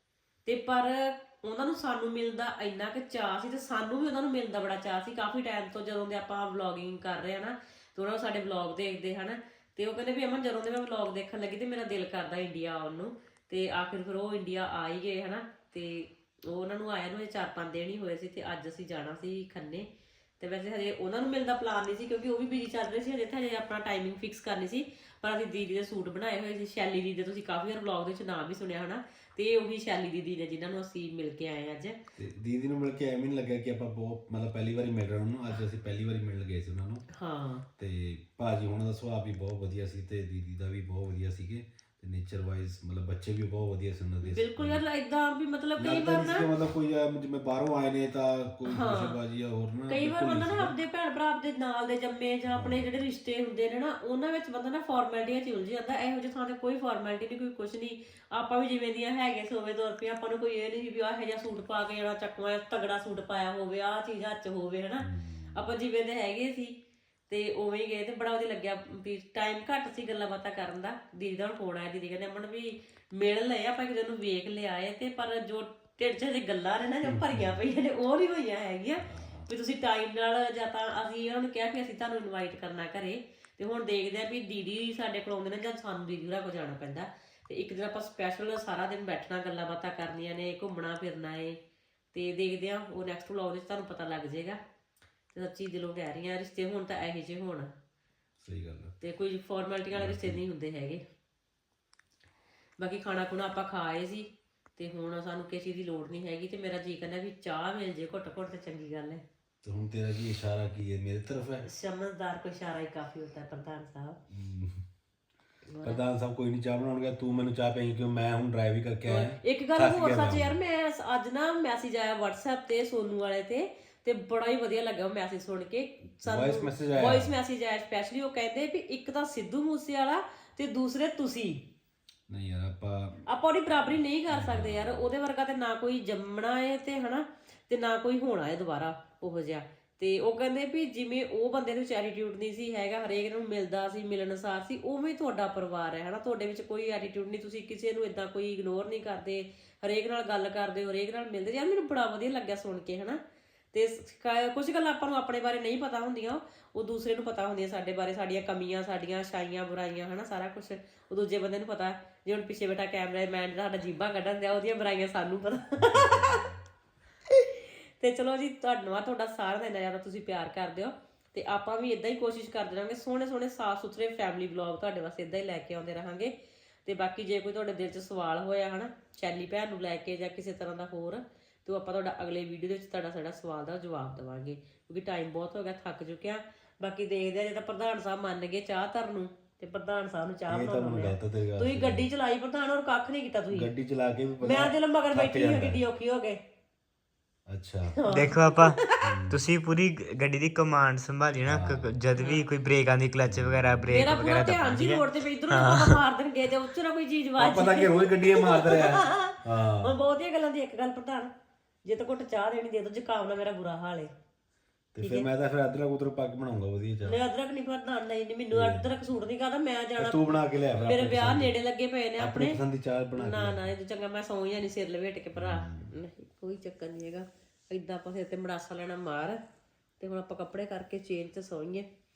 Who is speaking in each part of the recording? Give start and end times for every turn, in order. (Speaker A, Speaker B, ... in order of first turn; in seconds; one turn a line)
Speaker A: 0.5-19.9
Speaker A: 20.4-32.0
Speaker B: 32.2-37.0
Speaker A: 37.1-37.6
Speaker B: 37.8-44.8
Speaker A: 44.3-46.5
Speaker B: 45.8-50.7
Speaker A: 48.7-49.2
Speaker A: 49.9-66.7
Speaker B: 52.5-52.9
Speaker B: 65.0-65.7
Speaker A: 67.3-91.6
Speaker B: 77.1-77.5
Speaker B: 79.0-79.5
Speaker A: 92.1-94.6
Speaker A: 95.3-97.7
Speaker B: 98.4-98.9
Speaker A: 99.0-101.0
Speaker B: 99.9-100.4
Speaker A: 102.8-109.2
Speaker B: 109.6-111.7
Speaker A: 111.6-114.2
Speaker B: 114.3-114.8
Speaker A: 115.7-116.0
Speaker B: 115.8-120.6
Speaker A: 119.1-131.6
Speaker B: 126.2-127.3
Speaker B: 132.3-133.2
Speaker A: 133.3-153.2
Speaker B: 134.3-135.1
Speaker A: 153.7-166.4
Speaker B: 165.8-166.6
Speaker A: 167.4-176.3
Speaker A: 176.8-193.7
Speaker B: 190.5-192.1
Speaker B: 193.5-195.8
Speaker A: 194.4-196.4
Speaker B: 197.5-198.0
Speaker A: 198.0-199.0
Speaker C: 198.1-206.0
Speaker B: 199.0-199.4
Speaker B: 201.4-202.0
Speaker A: 202.2-202.5
Speaker B: 203.2-204.0
Speaker A: 203.9-211.3
Speaker B: 207.4-210.0
Speaker A: 211.8-214.1
Speaker B: 214.9-217.2
Speaker A: 215.0-215.3
Speaker A: 217.1-220.2
Speaker B: 218.5-218.9
Speaker B: 220.0-221.6
Speaker A: 220.8-222.6
Speaker B: 222.2-223.7
Speaker A: 223.2-229.4
Speaker B: 225.4-225.9
Speaker A: 230.0-231.9